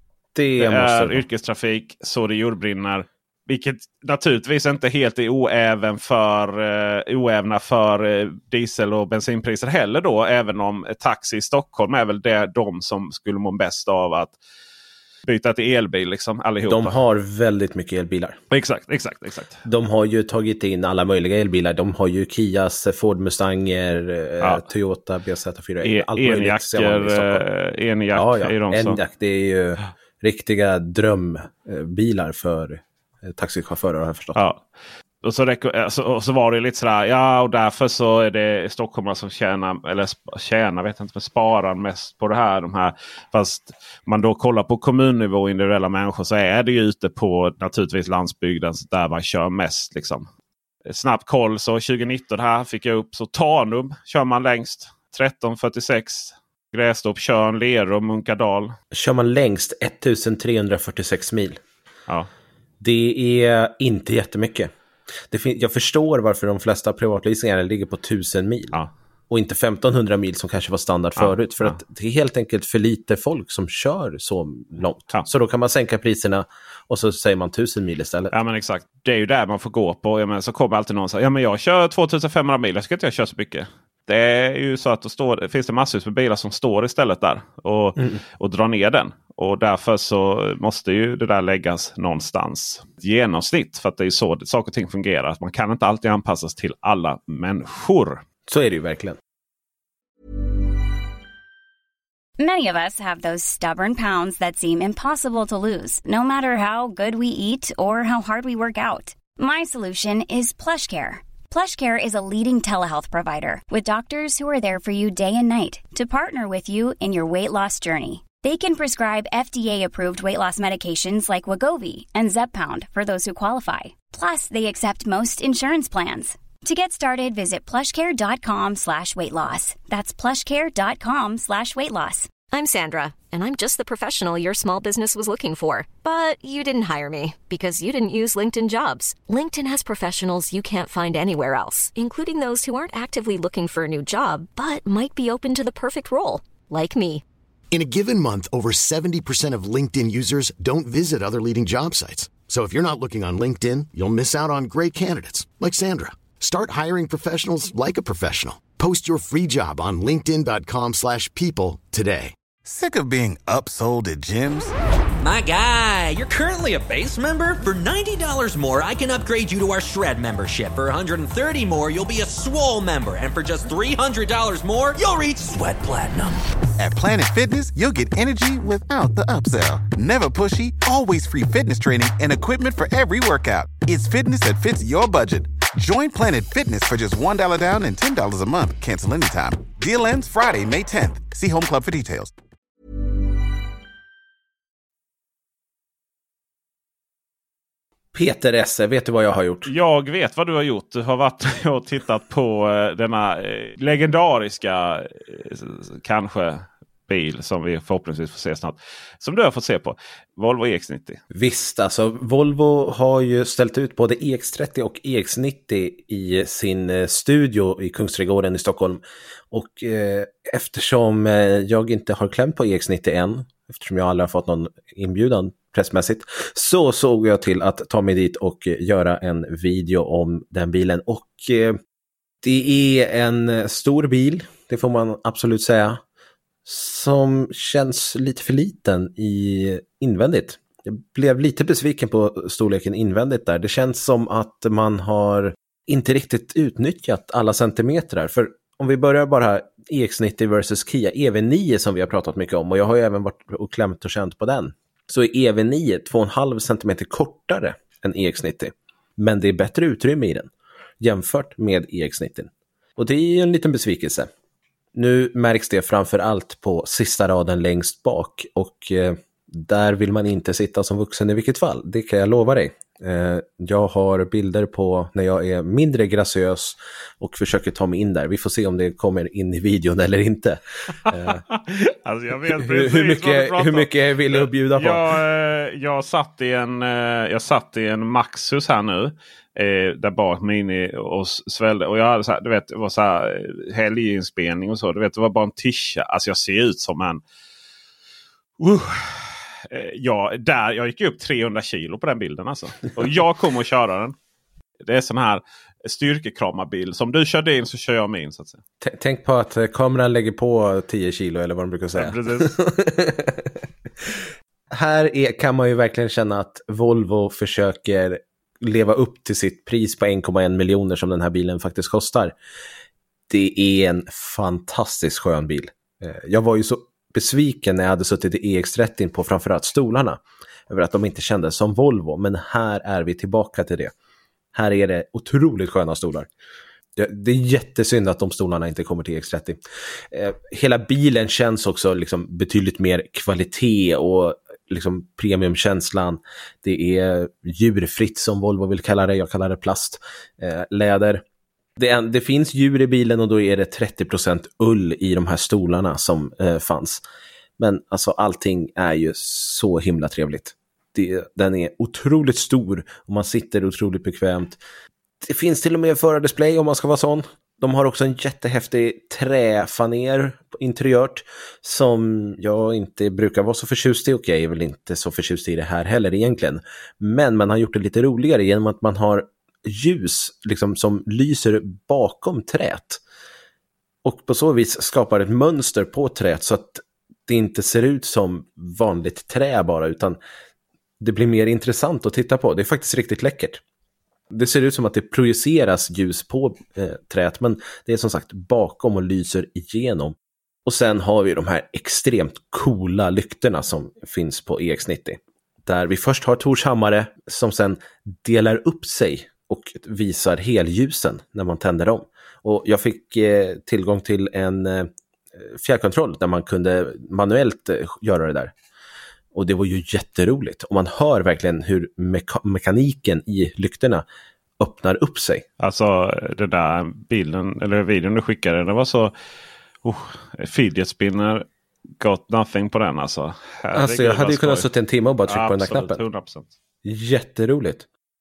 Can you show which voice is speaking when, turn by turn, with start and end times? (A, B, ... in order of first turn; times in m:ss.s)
0:00.4-0:01.2 A
0:00.6-0:14.4 B
0:15.3-0:17.0 B
0:16.7-0:18.4 A
0:18.5-0:19.6 B
0:19.6-0:27.4 A
0:25.8-0:29.0 B
0:28.1-0:34.4 A
0:34.4-0:34.6 B
0:35.2-0:50.3 B
0:50.9-0:58.8 B
0:58.9-1:01.6 A
1:02.8-1:04.7 A
1:05.3-1:08.8 A
1:09.3-1:18.3 A
1:11.2-1:11.8 B
1:18.3-1:38.2 B
1:38.5-1:39.2 A
1:42.4-2:12.3 C
2:12.5-2:27.2 D
2:27.7-2:42.3 E
2:42.6-2:44.7 F
2:45.2-2:56.3 G
2:56.8-3:12.3 F
3:18.1-3:19.7 A
3:19.7-3:31.2 B
3:31.3-3:51.8 A
3:52.4-3:56.0 A
3:56.6-4:20.5 A
4:21.0-4:24.3 A
4:25.0-4:41.4 A
4:41.0-4:57.2 B
4:42.5-4:45.1 A
4:58.6-5:04.2 B
5:04.8-5:08.6 B
5:08.8-5:14.1 A
5:12.0-5:12.6 B
5:14.7-5:22.4 A
5:23.3-5:33.9 A
5:34.6-5:36.3 A
5:37.0-5:51.2 A
5:51.8-5:57.0 A
5:57.6-6:04.6 A
6:05.2-6:23.0 A
6:24.0-6:30.2 A
6:31.0-6:33.6 A
6:34.3-6:58.5 A
6:59.3-7:04.0 A
7:04.6-7:05.5 A
7:05.6-7:09.1 B
7:09.8-7:11.4 B
7:12.0-7:14.7 B
7:13.7-7:16.0 A
7:15.3-7:16.5 B
7:16.8-7:17.9 A